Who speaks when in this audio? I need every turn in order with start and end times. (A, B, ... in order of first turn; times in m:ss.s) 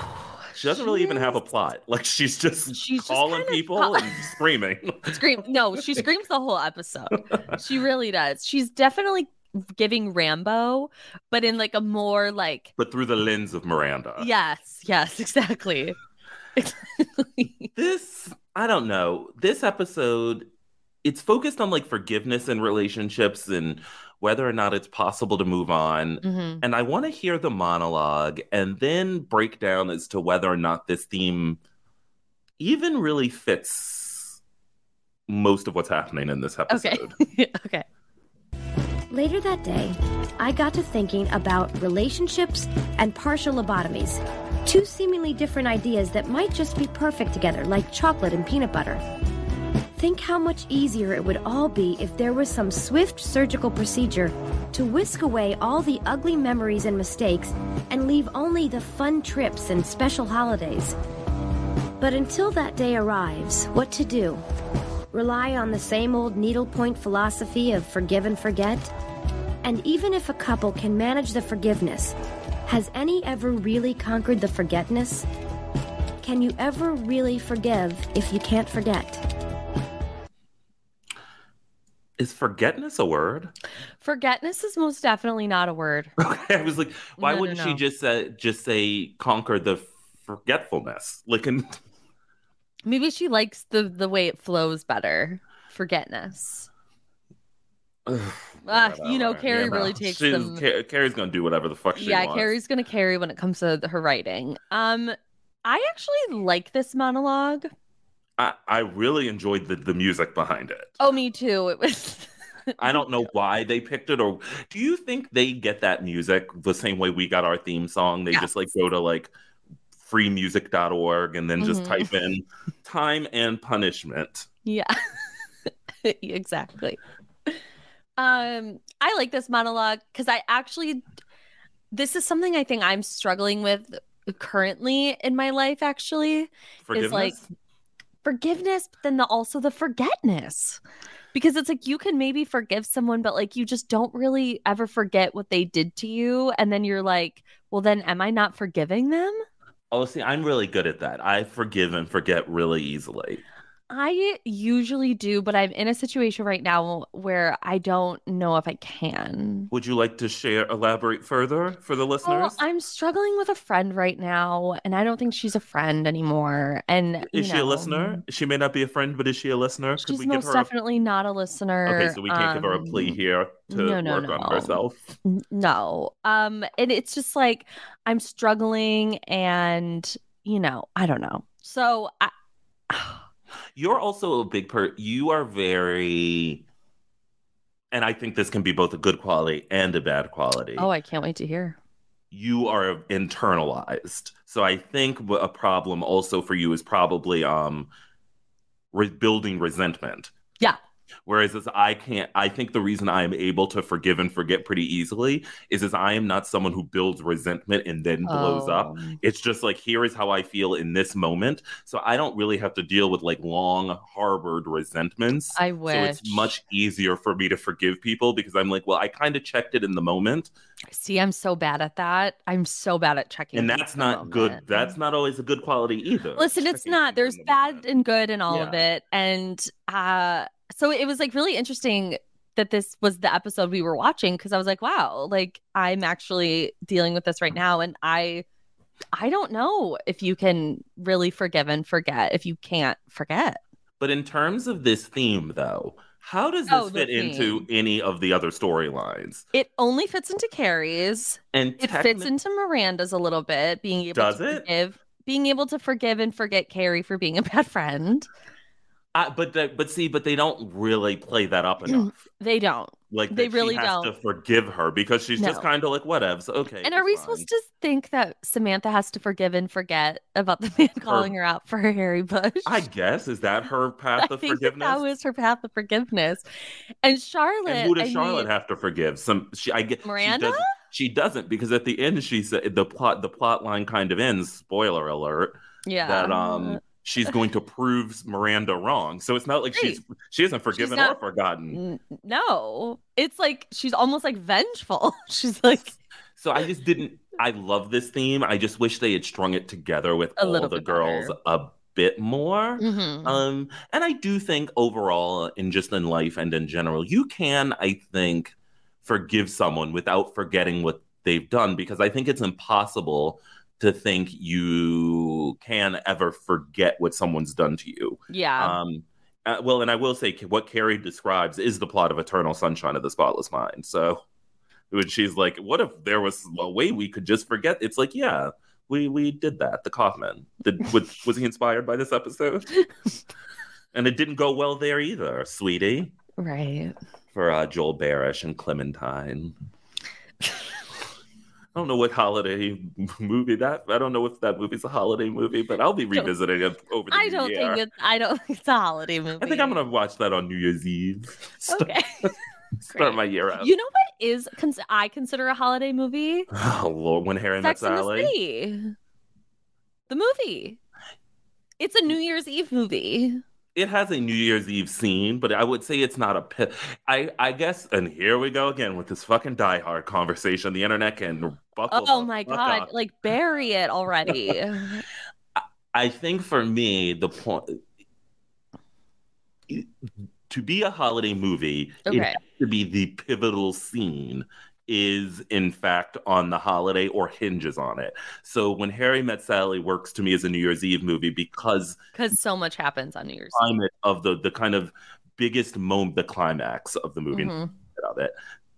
0:00.5-0:06.0 A
0:00.6-0:01.4 B
0:02.7-0:04.1 B
0:05.1-0:12.7 B
0:12.8-0:14.3 A
0:14.2-0:16.0 B
0:16.6-0:17.7 B
0:17.7-0:20.4 A
0:21.0-0:31.6 A
0:26.2-0:26.6 B
0:32.6-0:34.4 A
0:35.3-0:37.2 A
0:36.7-0:37.8 B
0:39.1-0:49.0 C
0:50.0-1:01.0 C
1:02.0-1:04.4 C
1:05.1-1:08.9 C
1:09.6-1:12.1 C
1:12.6-1:15.2 C
1:16.2-1:19.2 C
1:22.2-1:23.5 A
1:24.0-1:26.1 B
1:26.2-1:31.8 A
1:27.2-1:27.8 B
1:32.8-1:36.7 B
1:38.0-1:42.5 A
1:38.6-1:40.6 B
1:41.9-1:47.7 B
1:48.4-1:51.0 A
1:51.0-1:53.3 B
1:52.8-1:59.3 A
2:00.0-2:04.5 A
2:01.6-2:02.1 B
2:04.6-2:04.9 B
2:06.0-2:07.6 B
2:08.2-2:11.0 B
2:11.9-2:17.4 B
2:16.8-2:17.4 A
2:18.2-2:20.8 B
2:21.3-2:29.4 B
2:29.9-2:33.4 A
2:33.9-2:39.7 B
2:39.7-2:42.6 A
2:42.2-2:48.2 B
2:47.2-2:50.7 A
2:50.0-2:53.2 B
2:51.9-2:55.1 A
2:53.7-3:02.3 B
3:02.9-3:03.2 B
3:03.8-3:06.6 A
3:07.9-3:10.9 A
3:10.8-3:11.8 B
3:12.3-3:17.9 A
3:18.9-3:20.3 A
3:21.2-3:40.5 A
3:28.2-3:29.2 B
3:35.6-3:36.5 B
3:40.9-3:44.9 B
3:43.5-3:47.8 A
3:46.4-3:58.4 B
3:48.5-3:48.8 A
3:59.1-4:03.6 B
4:04.0-4:09.4 A
4:06.7-4:07.7 B
4:09.5-4:18.3 B
4:11.5-4:12.3 A
4:14.1-4:14.7 A
4:19.1-4:22.2 A
4:21.8-4:24.1 B
4:23.1-4:27.5 A
4:25.4-4:25.6 B
4:26.8-4:32.8 B
4:31.0-4:31.3 A
4:32.6-4:35.0 A
4:34.2-4:36.4 B
4:37.0-4:38.5 B
4:37.6-4:51.8 A
4:40.0-4:40.7 B
4:45.8-4:46.8 B
4:50.7-4:51.2 B
4:51.7-4:56.0 B
4:56.4-5:24.2 A
5:00.4-5:01.3 B
5:02.8-5:03.4 B
5:18.3-5:18.8 B
5:24.9-5:32.8 A
5:33.9-5:36.1 A
5:36.4-5:36.9 B
5:37.3-5:39.5 A
5:41.7-5:47.8 A
5:47.1-5:49.8 B
5:49.4-5:53.7 A
5:51.7-5:52.3 B
5:52.9-5:56.5 B
5:56.5-5:58.3 A
5:57.6-5:58.9 B
6:00.1-6:00.8 B
6:01.8-6:03.4 B
6:03.7-6:12.9 A
6:11.9-6:15.0 B
6:15.9-6:17.8 A
6:20.5-6:32.0 A
6:22.0-6:22.4 B
6:32.1-6:33.7 B
6:33.5-6:38.3 A
6:37.3-6:37.7 B